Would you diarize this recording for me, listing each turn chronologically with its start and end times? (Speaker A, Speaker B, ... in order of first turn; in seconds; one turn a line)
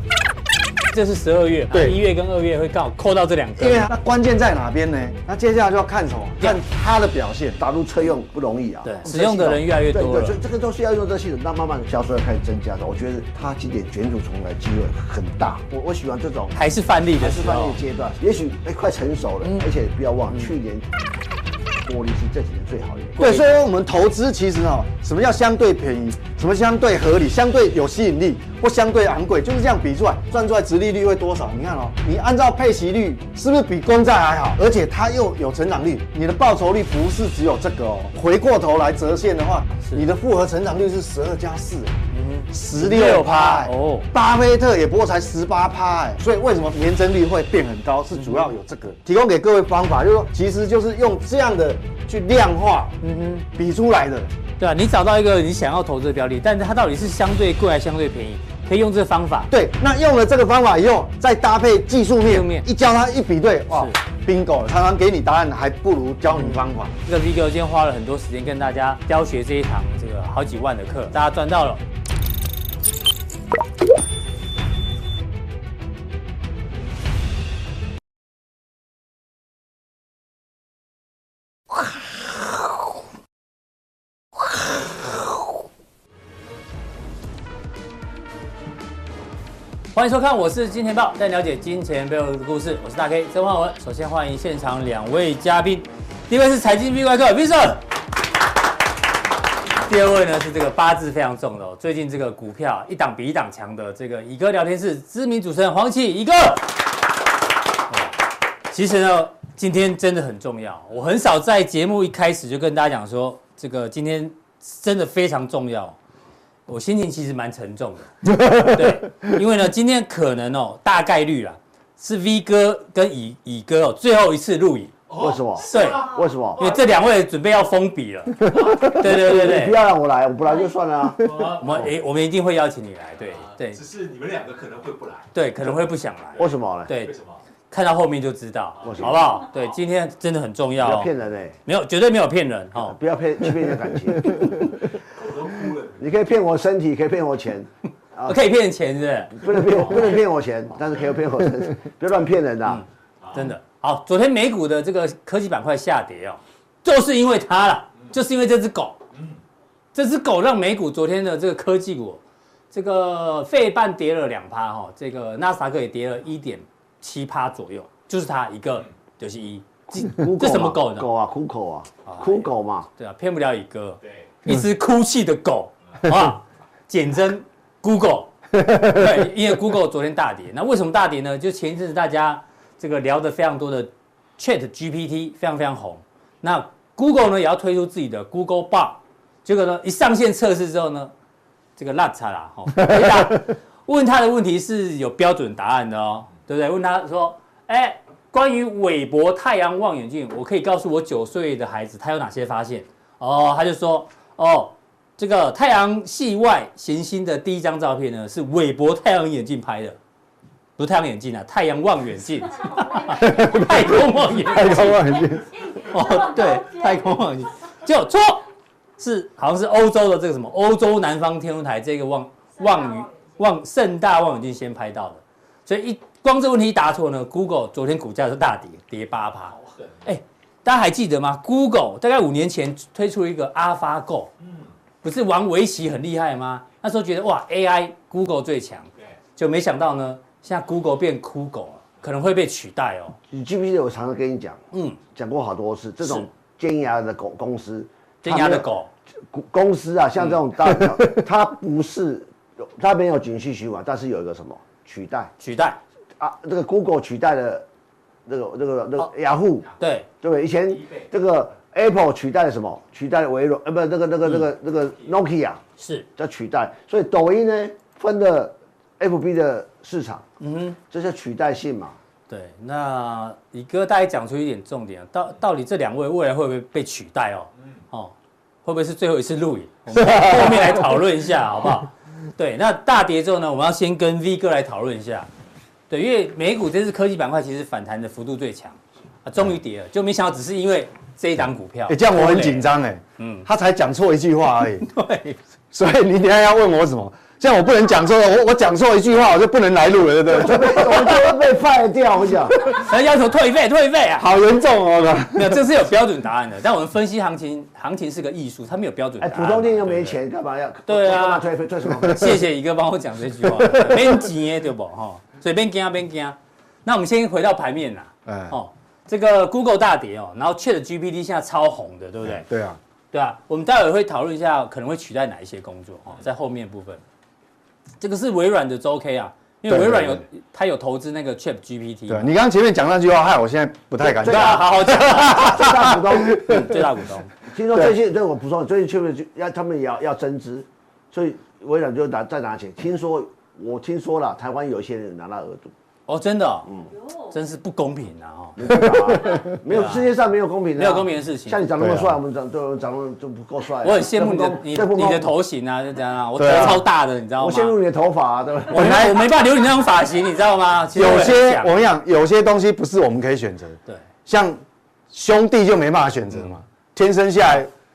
Speaker A: 0.9-3.9
Speaker B: 1.7-2.0
Speaker B: 3.6-7.6
Speaker C: 7.6-16.6
Speaker A: 8.8-10.4
Speaker A: 16.5-17.8
Speaker C: 17.2-20.9
Speaker C: 21.8-23.3
Speaker A: 23.2-23.6
Speaker B: 23.2-42.0
Speaker A: 42.1-44.1
Speaker B: 42.5-53.0
Speaker A: 48.2-48.5
Speaker A: 53.0-53.5
Speaker B: 53.5-54.3
Speaker A: 54.6-59.5
Speaker B: 59.5-67.0
Speaker A: 62.2-62.7
Speaker A: 66.3-71.8
Speaker A: 89.9-97.8
Speaker A: 99.8-106.8
Speaker A: 108.7-116.0
Speaker A: 116.7-124.9
Speaker D: 125.1-126.8
Speaker C: 125.2-126.6
Speaker A: 125.6-129.8
Speaker C: 128.5-131.6
Speaker D: 131.2-131.9
Speaker A: 131.5-133.8
Speaker D: 133.4-135.3
Speaker A: 135.3-137.1
Speaker C: 136.4-136.9
Speaker D: 137.0-137.4
Speaker A: 137.7-141.1
Speaker C: 138.8-139.2
Speaker C: 140.8-141.6
Speaker A: 141.7-143.0
Speaker C: 142.8-144.8
Speaker D: 145.0-146.0
Speaker C: 146.0-148.4
Speaker A: 148.3-150.1
Speaker C: 149.4-152.8
Speaker A: 152.7-159.0
Speaker A: 159.9-162.2
Speaker A: 162.7-171.1
Speaker C: 170.0-172.9
Speaker A: 172.1-191.1
Speaker A: 191.8-210.0
Speaker A: 210.8-215.1
Speaker E: 212.6-213.7
Speaker B: 213.2-215.6
Speaker E: 214.6-217.1
Speaker A: 215.9-218.4
Speaker A: 219.0-229.5
Speaker E: 222.6-223.3
Speaker D: 229.5-229.9
Speaker A: 230.1-234.3
Speaker A: 235.0-243.2
Speaker C: 243.3-248.7
Speaker A: 244.7-245.0
Speaker A: 248.2-248.9
Speaker C: 249.3-255.3
Speaker A: 255.4-255.8
Speaker C: 256.2-257.6
Speaker C: 258.3-265.6
Speaker A: 259.8-260.1
Speaker A: 265.8-266.1
Speaker C: 266.2-270.2
Speaker A: 270.4-270.8
Speaker C: 270.9-272.0
Speaker A: 272.3-278.1
Speaker A: 278.6-285.3
Speaker B: 280.0-280.7
Speaker A: 285.9-293.5
Speaker B: 291.9-294.9
Speaker A: 294.9-295.4
Speaker B: 295.7-301.4
Speaker C: 300.3-302.7
Speaker A: 302.6-304.3
Speaker B: 304.2-305.6
Speaker A: 305.3-310.2
Speaker C: 309.2-312.4
Speaker A: 310.9-311.4
Speaker A: 312.1-322.5
Speaker B: 313.4-314.2
Speaker B: 318.3-318.6
Speaker B: 322.2-322.8
Speaker A: 323.1-327.0
Speaker A: 328.0-332.3
Speaker B: 329.7-330.2
Speaker B: 332.1-336.8
Speaker C: 334.0-336.8
Speaker A: 334.2-335.9
Speaker A: 336.5-337.3
Speaker C: 337.4-345.7
Speaker A: 346.1-346.7
Speaker E: 346.9-347.4
Speaker A: 347.3-350.1
Speaker C: 348.6-355.3
Speaker A: 350.8-351.7
Speaker B: 351.8-352.2
Speaker A: 353.8-357.8
Speaker B: 356.4-356.8
Speaker C: 357.4-359.0
Speaker A: 358.7-361.8
Speaker B: 358.7-359.2
Speaker B: 360.9-367.7